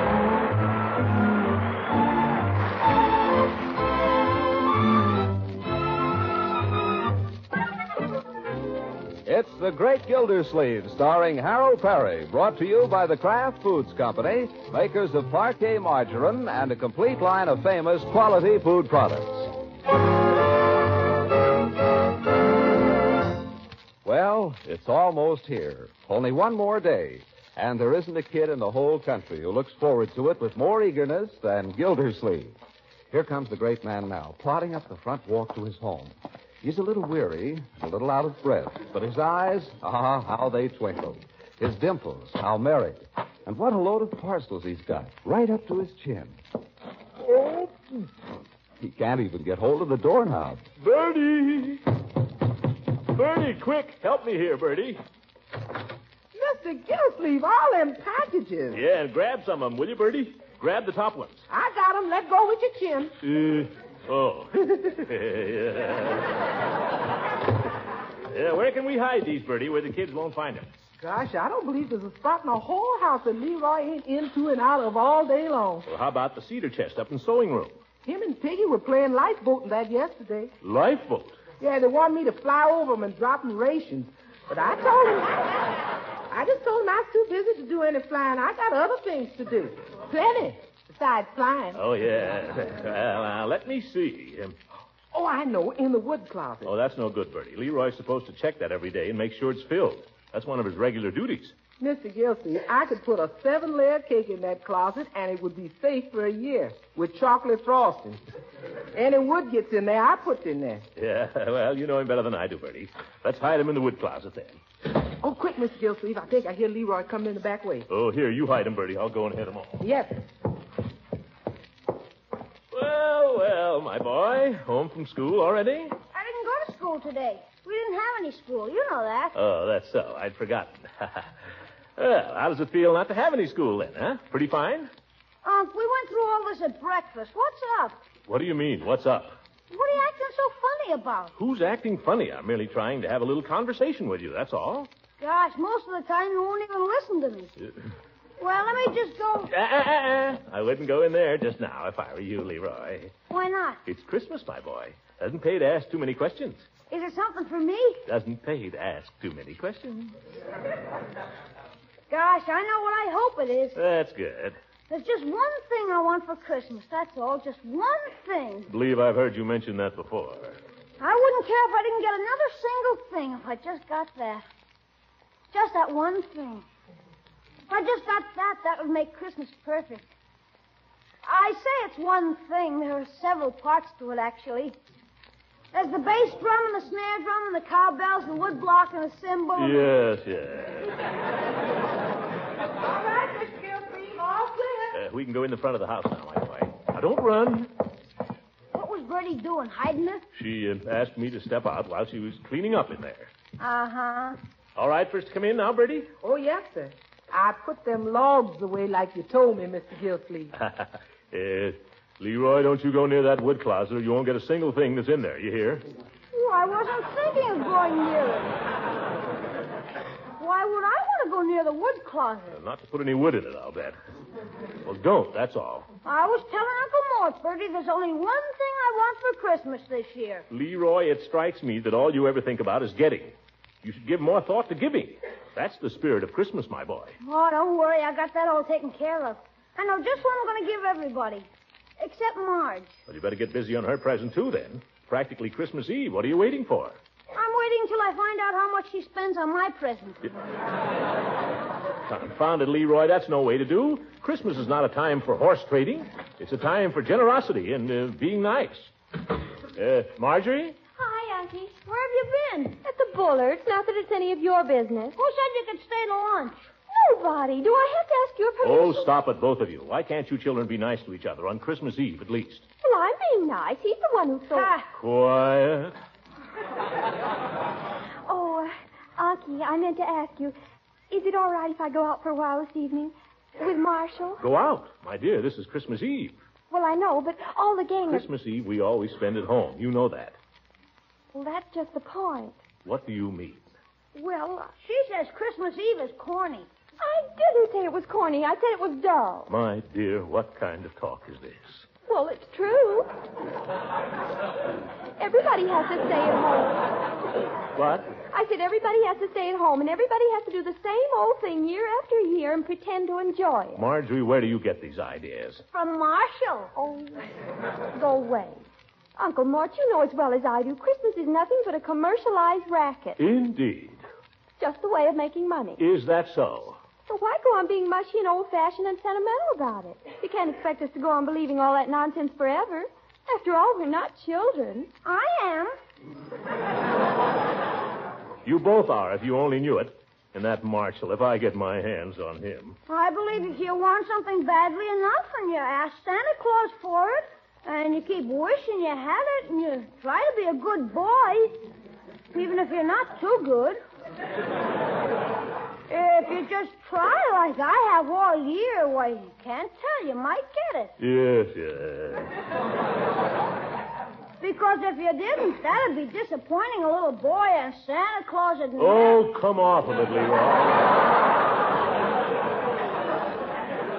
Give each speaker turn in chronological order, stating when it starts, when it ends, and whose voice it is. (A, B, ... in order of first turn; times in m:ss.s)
0:09.2-0:19.5 A
0:24.0-0:32.6 A
0:33.1-0:46.4 A
0:47.3-0:47.7 B
0:48.8-0:50.6 A
0:50.8-0:51.8 B
0:53.1-0:55.0 B
0:56.3-0:58.8 C
0:58.7-1:01.4 B
1:01.5-1:03.1 C
1:03.2-1:06.3 B
1:08.3-1:10.7 B
1:11.0-1:15.9 C
1:15.9-1:17.8 B
1:18.0-1:20.5 C
1:20.6-1:21.4 B
1:21.6-1:25.7 C
1:26.3-1:31.8 C
1:31.7-1:34.6 B
1:35.1-1:36.7 C
1:36.6-1:41.6 B
1:41.8-1:48.2 C
1:48.9-1:50.8 C
1:51.0-1:54.6 B
1:55.2-1:57.8 C
1:57.9-1:59.8 B
1:59.8-2:00.2 C
2:02.7-2:06.0 B
2:06.1-2:09.3 D
2:09.3-2:11.3 B
2:12.0-2:14.9 B
2:15.4-2:18.0 D
2:18.3-2:19.4 B
2:19.7-2:21.3 D
2:21.4-2:24.9 B
2:25.2-2:27.5 D
2:28.4-2:29.5 D
2:29.5-2:33.1 B
2:33.3-2:33.8 D
2:33.8-2:36.7 B
2:36.9-2:38.0 D
2:38.1-2:40.1 B
2:42.1-2:43.8 D
2:43.8-2:44.6 B
2:44.9-2:48.7 D
2:48.7-2:50.6 B
2:51.0-2:54.4 D
2:55.5-2:56.6 D
2:57.7-3:00.1 D
3:01.2-3:04.8 D
3:05.7-3:09.9 D
3:09.6-3:10.9 B
3:12.9-3:14.9 D
3:14.9-3:17.7 B
3:18.7-3:20.2 D
3:20.3-3:23.3 B
3:23.6-3:24.4 D
3:24.8-3:26.1 B
3:26.2-3:30.5 C
3:30.6-3:35.9 B
3:36.3-3:38.6 D
3:40.4-3:42.6 D
3:42.5-3:44.0 B
3:44.8-3:45.8 B
3:46.0-3:50.5 D
3:50.5-3:57.2 B
3:57.2-4:01.5 D
4:02.0-4:02.9 D
4:03.1-4:07.0 B
4:07.3-4:10.2 D
4:12.0-4:18.9 B
4:19.7-4:20.8 B
4:21.0-4:21.7 E
4:21.8-4:22.8 D
4:22.8-4:25.2 E
4:25.2-4:26.6 D
4:26.9-4:29.1 E
4:28.6-4:32.6 B
4:32.8-4:34.7 E
4:34.5-4:34.9 D
4:35.0-4:36.0 B
4:38.3-4:40.5 E
4:41.1-4:44.4 E
4:44.4-4:46.4 B
4:46.7-4:48.2 E
4:48.1-4:50.4 B
4:51.3-4:52.6 E
4:52.8-4:53.7 B
4:54.1-4:54.7 E
4:54.8-4:56.7 D
4:57.0-4:59.5 E
4:59.5-5:01.9 B
5:02.1-5:03.1 E
5:05.2-5:06.8 E
5:07.7-5:08.1 B
5:08.3-5:13.8 E
5:13.7-5:15.6 B
5:15.7-5:16.7 D
5:16.7-5:17.2 E
5:17.9-5:18.6 E
5:19.2-5:23.2 E
5:23.2-5:24.0 B
5:24.6-5:25.8 E
5:25.8-5:26.8 B
5:27.1-5:34.9 E
5:35.0-5:35.7 D
5:38.4-5:42.8 B
5:42.9-5:51.6 D
5:52.3-5:53.8 D
5:55.9-6:00.9 D
6:01.0-6:02.3 B
6:04.4-6:09.2 D
6:08.8-6:11.0 B